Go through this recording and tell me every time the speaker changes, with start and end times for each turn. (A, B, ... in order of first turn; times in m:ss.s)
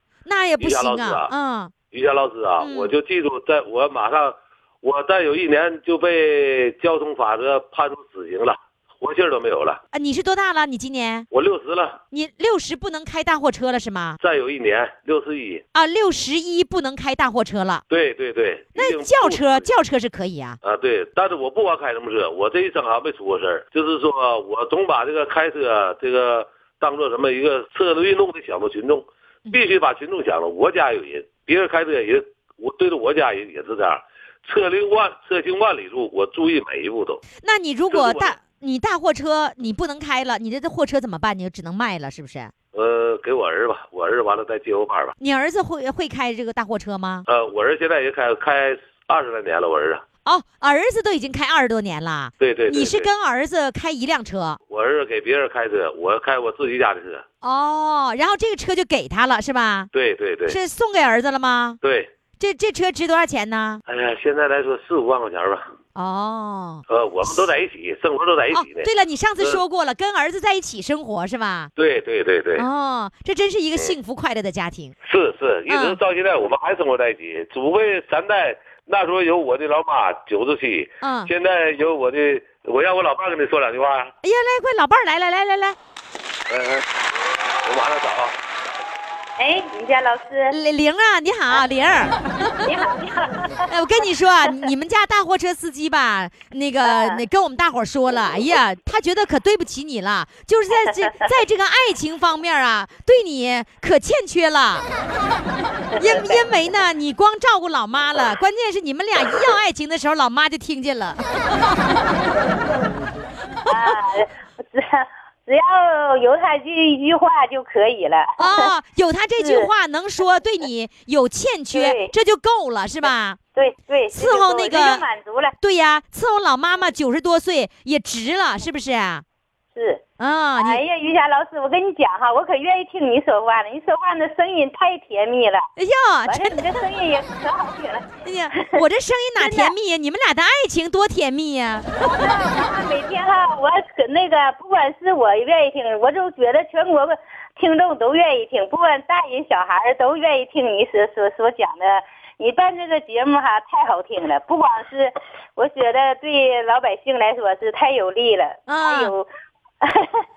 0:00.2-0:01.7 A
0:00.6-0:01.3 B
0:01.9-0:09.8 B
0:02.6-0:02.9 A
0:09.9-0:11.3 A
0:11.3-0:12.0 B
0:12.1-0:14.2 A
0:14.2-0:15.6 B
0:15.7-0:17.8 A
0:17.9-0:19.7 B
0:18.7-0:20.6 A
0:20.6-0:37.2 B
0:37.4-0:42.5 A
0:37.9-0:38.4 B
0:42.7-0:45.1 B
0:45.2-0:47.2 A
0:47.2-0:50.0 B
0:50.2-0:54.6 A
0:52.4-0:53.1 B
0:54.7-0:57.2 B
0:57.4-0:59.9 A
0:59.9-1:00.6 B
1:00.5-1:01.8 A
1:01.8-1:02.1 B
1:02.4-1:03.8 A
1:03.9-1:05.7 B
1:05.9-1:07.4 A
1:06.9-1:08.9 B
1:08.5-1:11.7 A
1:11.8-1:12.6 B
1:12.6-1:14.9 A
1:15.0-1:24.1 B
1:15.7-1:16.0 A
1:21.0-1:21.3 A
1:24.2-1:25.8 A
1:26.5-1:26.8 B
1:27.6-1:28.4 B
1:29.4-1:30.5 C
1:30.5-1:32.8 A
1:32.6-1:33.6 C
1:33.7-1:44.8 A
1:36.9-1:37.2 C
1:45.9-1:46.5 C
1:46.0-1:51.5 A
1:53.7-1:54.0 A
1:53.7-1:58.7 C
1:58.4-2:03.4 A
1:59.4-1:59.7 C
2:01.7-2:02.1 C
2:03.6-2:05.5 C
2:04.1-2:05.0 A
2:05.6-2:09.2 A
2:09.7-2:10.0 C
2:10.2-2:10.8 A
2:10.6-2:15.7 C
2:15.8-2:16.8 A
2:16.3-2:18.7 C
2:18.2-2:22.3 A
2:19.4-2:19.7 C
2:22.0-2:39.3 C
2:38.7-2:39.1 A
2:39.8-2:40.2 C